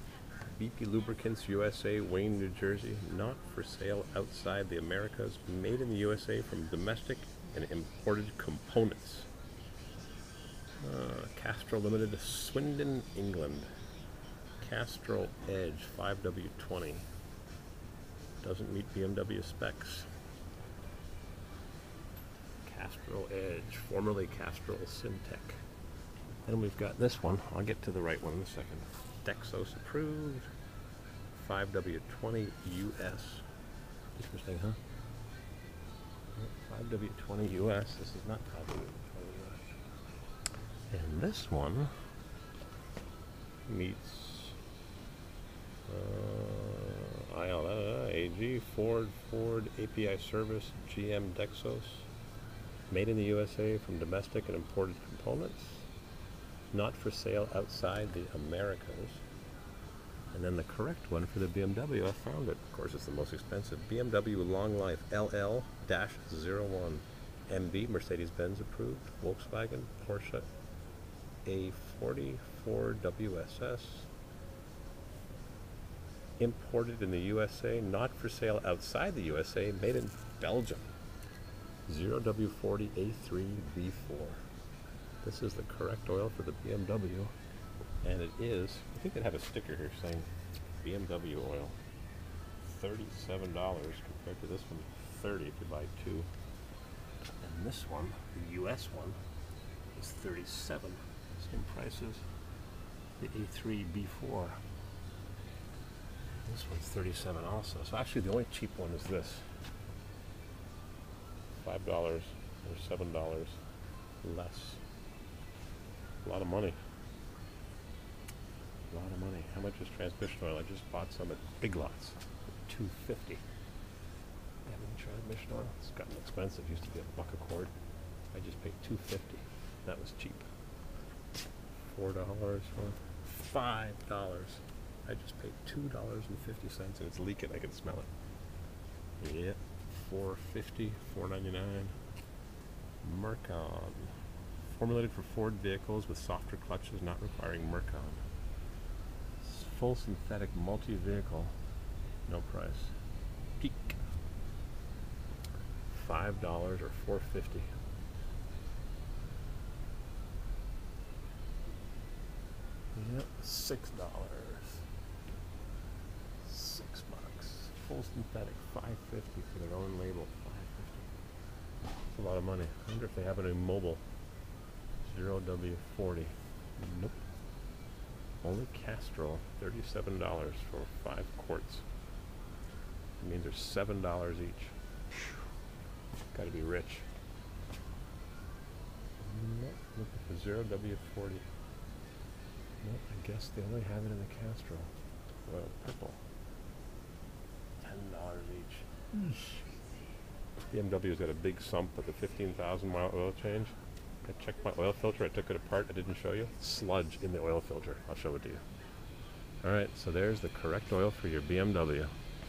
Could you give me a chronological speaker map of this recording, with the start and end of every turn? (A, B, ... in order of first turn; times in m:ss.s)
0:00.4-0:09.3 A
0:10.8-0:13.7 A
0:14.6-0:17.1 A
0:18.4-0:20.1 A
0:22.6-0:25.6 A
0:26.4-0:30.5 A
0:31.3-0:33.5 A
0:34.1-0:34.8 A
0:36.4-0:39.7 A
0:40.9-0:41.9 A
0:43.7-0:44.6 A
0:45.9-0:52.1 A
0:52.9-0:55.9 A
0:56.7-0:59.2 A
1:00.3-1:10.5 A
1:11.4-1:14.1 A
1:16.4-1:20.9 A
1:21.9-1:24.4 A
1:25.2-1:27.3 A
1:28.0-1:31.8 A
1:32.6-1:36.3 A
1:37.4-1:39.2 A
1:39.9-1:42.2 A
1:43.2-1:44.6 A
1:46.4-1:49.5 A
1:51.6-1:53.6 A
1:54.2-1:54.8 A
1:56.2-1:56.8 A
1:58.9-2:03.4 A
2:04.7-2:07.7 A
2:08.3-2:10.5 A
2:11.8-2:18.1 A
2:19.2-2:22.0 A
2:23.0-2:28.2 A
2:29.4-2:31.6 A
2:32.3-2:33.0 A
2:33.6-2:34.0 A
2:35.9-2:37.7 A
2:43.0-2:44.8 A
2:46.4-2:51.1 A
2:52.1-2:54.0 A
2:55.0-2:57.2 A
2:58.4-3:01.8 A
3:03.2-3:04.8 A
3:06.3-3:07.1 A
3:09.2-3:11.5 A
3:12.8-3:14.9 A
3:15.5-3:16.2 A
3:17.8-3:19.5 A
3:20.7-3:28.6 A
3:29.6-3:32.1 A